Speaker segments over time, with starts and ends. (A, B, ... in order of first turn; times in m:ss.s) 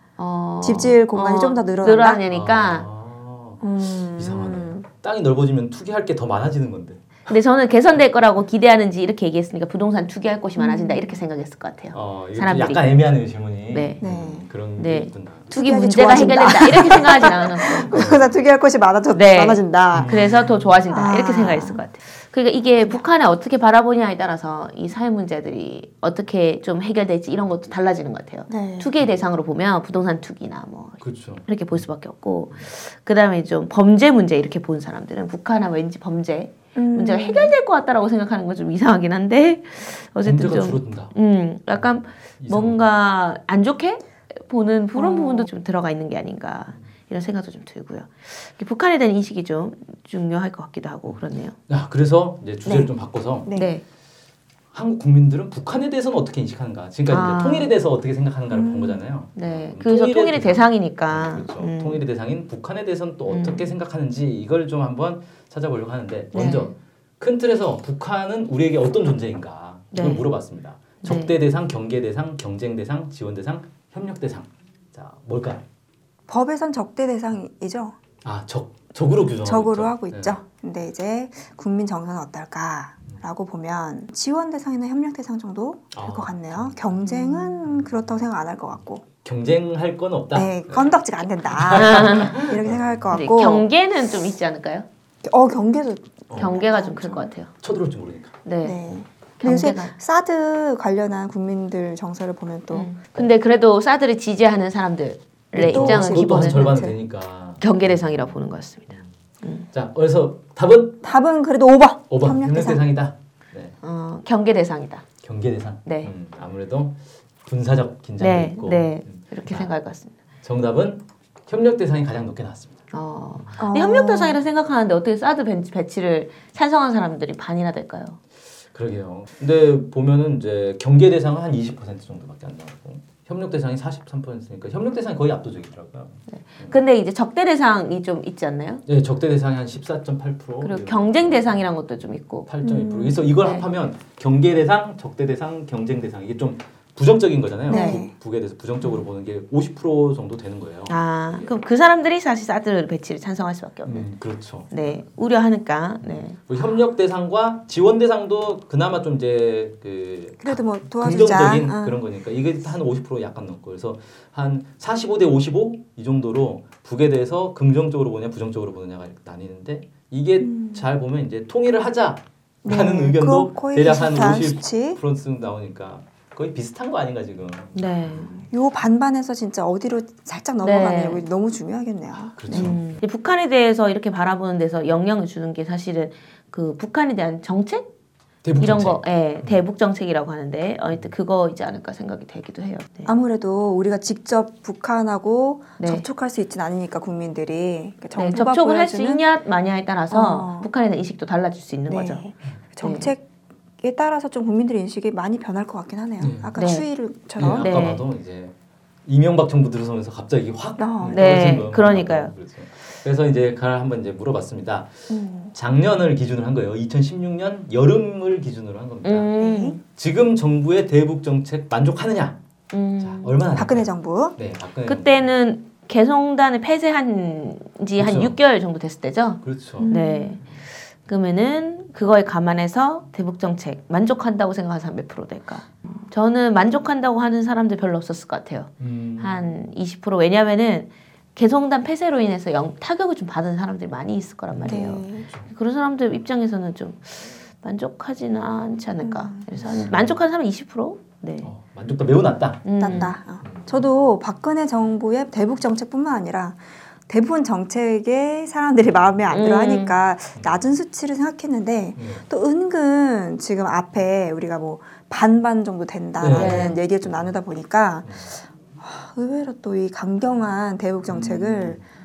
0:00.2-0:02.9 A
0:00.6-0:02.2 B
0:02.3-0:07.1 C
0:03.6-0:04.9 B
0:07.3-0:13.0 A
0:10.6-0:11.2 B
0:11.9-0:15.5 C
0:13.7-0:14.0 A
0:14.0-0:14.5 B
0:14.8-0:18.0 A
0:15.5-0:20.3 B
0:17.9-0:18.3 C
0:19.1-0:51.6 A
0:19.9-0:20.7 C
0:20.9-0:21.8 B
0:28.5-0:28.9 B
0:31.0-0:31.5 C
0:36.8-0:37.5 B
0:40.2-0:41.2 C
0:41.8-0:42.9 C
0:45.0-0:45.5 B
0:51.1-0:53.5 C
0:52.7-0:52.9 B
0:53.4-0:53.7 B
0:53.5-0:53.8 A
0:54.7-1:15.6 C
0:57.1-0:57.7 A
0:58.5-0:59.0 B
0:59.4-1:02.0 A
1:03.3-1:03.7 A
1:06.3-1:06.7 A
1:09.9-1:10.3 A
1:11.0-1:11.3 A
1:16.3-1:18.0 B
1:18.2-1:20.4 C
1:19.4-1:29.0 B
1:25.9-1:27.1 C
1:27.6-1:27.9 C
1:29.2-1:31.0 C
1:30.3-1:33.7 B
1:31.5-1:33.1 C
1:31.7-1:32.4 A
1:33.1-1:34.9 A
1:35.2-1:37.3 B
1:36.3-1:36.6 C
1:36.4-1:37.5 A
1:37.6-1:38.4 C
1:38.4-1:38.8 A
1:38.6-1:43.2 B
1:39.4-1:39.9 A
1:42.7-1:46.9 A
1:45.5-1:47.0 B
1:45.7-1:48.3 C
1:47.6-1:49.7 A
1:49.7-1:51.0 C
1:51.0-1:52.8 B
1:52.1-1:53.8 C
1:53.8-1:55.0 A
1:55.2-1:59.7 C
1:55.9-1:56.1 A
1:58.2-2:00.1 A
2:00.4-2:02.8 C
2:02.9-2:08.2 A
2:03.6-2:04.4 B
2:08.7-2:16.8 C
2:16.3-2:18.8 A
2:18.9-2:21.7 C
2:20.6-2:22.5 A
2:22.4-2:31.0 C
2:22.6-2:23.2 B
2:23.3-2:23.7 A
2:27.7-2:28.1 B
2:27.7-2:28.1 A
2:30.9-2:34.1 A
2:33.9-2:34.9 C
2:34.7-2:36.4 A
2:36.0-2:58.5 C
2:40.4-2:42.0 B
2:50.4-2:50.8 B
2:52.6-2:55.0 B
2:57.8-2:58.4 A
2:58.5-3:02.7 B
3:00.6-3:01.2 A
3:02.4-3:03.0 C
3:02.5-3:07.9 A
3:08.4-3:09.6 C
3:08.6-3:13.1 A
3:13.1-3:19.2 B
3:15.8-3:16.1 A
3:18.2-3:22.2 A
3:20.1-3:20.7 B
3:21.9-3:23.3 B
3:22.8-3:23.1 A
3:23.8-3:27.7 B
3:26.2-3:26.6 C
3:26.6-3:26.9 A
3:27.4-3:28.5 C
3:27.5-3:28.0 A
3:29.1-3:39.3 C
3:30.8-3:31.3 B
3:31.1-3:32.3 A
3:35.1-3:35.5 B
3:39.0-3:39.8 A
3:39.4-3:39.8 B
3:39.9-3:42.4 C
3:42.7-3:43.4 A
3:43.0-3:45.3 C
3:43.5-3:44.4 B
3:44.9-3:50.4 A
3:48.0-3:48.4 C
3:49.4-3:49.9 C
3:49.8-3:50.4 B
3:51.0-4:11.5 A
3:58.8-3:59.5 C
4:04.5-4:05.5 C
4:04.7-4:05.3 B
4:09.0-4:09.4 B
4:09.6-4:10.2 C
4:11.4-4:13.8 C
4:12.6-4:13.2 A
4:12.8-4:31.8 B
4:19.3-4:20.0 A
4:20.4-4:20.7 C
4:22.0-4:22.2 C
4:26.2-4:26.8 C
4:26.3-4:26.8 A
4:31.1-4:31.8 C